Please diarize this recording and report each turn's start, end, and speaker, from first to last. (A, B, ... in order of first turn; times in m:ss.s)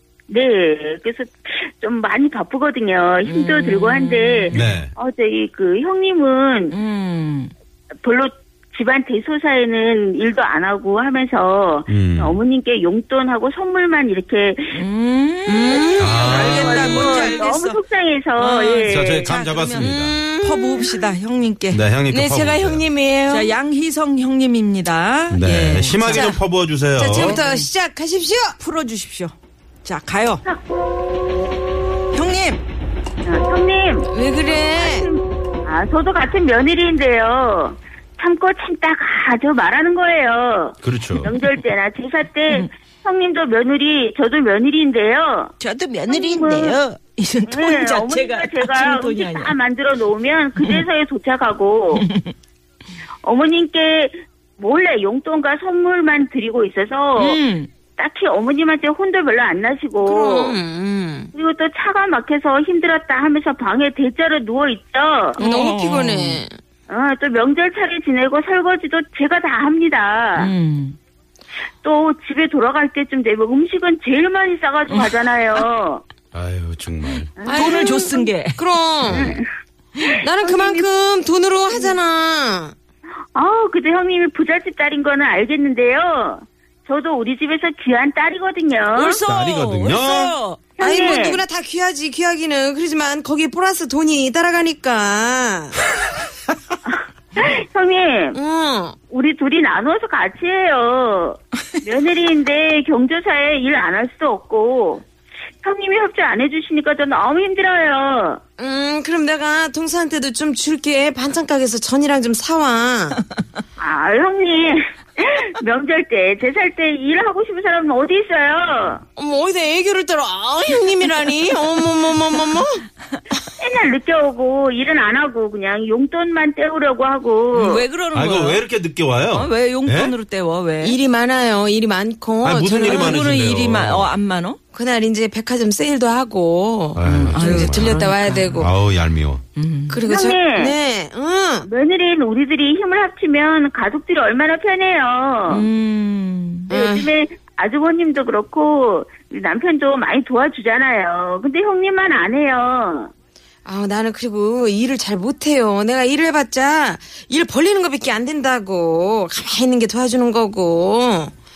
0:00.3-0:06.8 A
0:03.2-0:04.8 B
0:04.5-0:04.9 C
0:06.7-0:07.5 B
0:08.0-0:14.8 A
0:11.9-0:12.4 C
0:14.7-0:17.8 B
0:15.5-0:17.4 D
0:15.7-0:19.3 A
0:16.0-0:16.8 C
0:18.4-0:21.8 B
0:18.9-0:20.2 C
0:19.8-0:21.1 D
0:21.7-0:22.9 C
0:22.1-0:23.5 D
0:23.3-0:26.3 B
0:25.3-0:27.4 C
0:26.0-0:26.4 D
0:27.0-0:28.5 D
0:27.0-0:27.7 B
0:28.6-0:30.4 B
0:32.1-0:32.6 B
0:33.2-0:45.5 A
0:34.1-0:35.1 D
0:40.8-0:41.3 C
0:41.1-0:41.5 B
0:45.6-0:49.5 B
0:46.1-0:46.8 A
0:47.5-0:52.0 A
0:52.0-0:52.3 B
0:53.2-0:57.4 A
0:57.2-0:57.7 B
0:58.0-1:00.6 A
1:00.0-1:01.3 D
1:01.3-1:05.4 A
1:05.4-1:06.4 B
1:05.4-1:06.6 D
1:06.9-1:10.5 A
1:10.4-1:11.0 B
1:11.8-1:16.0 A
1:14.9-1:15.1 B
1:16.3-1:17.3 C
1:17.4-1:18.1 A
1:17.4-1:18.7 B
1:17.5-1:19.3 D
1:19.1-1:19.4 A
1:19.1-1:19.4 C
1:20.0-1:20.9 A
1:20.2-1:22.7 D
1:23.3-1:29.2 A
1:28.9-1:30.8 B
1:29.2-1:30.4 C
1:30.8-1:31.4 A
1:30.8-1:35.8 D
1:37.4-1:38.4 A
1:38.3-1:39.0 D
1:39.1-1:45.0 A
1:45.6-1:48.4 A
1:48.6-1:53.2 D
1:53.8-1:59.0 A
1:59.2-2:02.8 D
2:01.0-2:01.8 B
2:03.6-2:07.8 A
2:07.5-2:08.6 B
2:08.1-2:10.2 C
2:09.3-2:11.0 B
2:10.8-2:13.3 D
2:12.4-2:14.1 C
2:12.8-2:14.6 B
2:14.7-2:18.7 D
2:17.0-2:18.0 C
2:17.0-2:18.7 B
2:18.6-2:19.4 C
2:19.6-2:20.0 B
2:19.9-2:21.7 D
2:20.0-2:20.7 A
2:21.6-2:25.7 A
2:25.5-2:26.7 B
2:26.7-2:33.1 A
2:26.7-2:27.1 D
2:33.6-2:41.3 D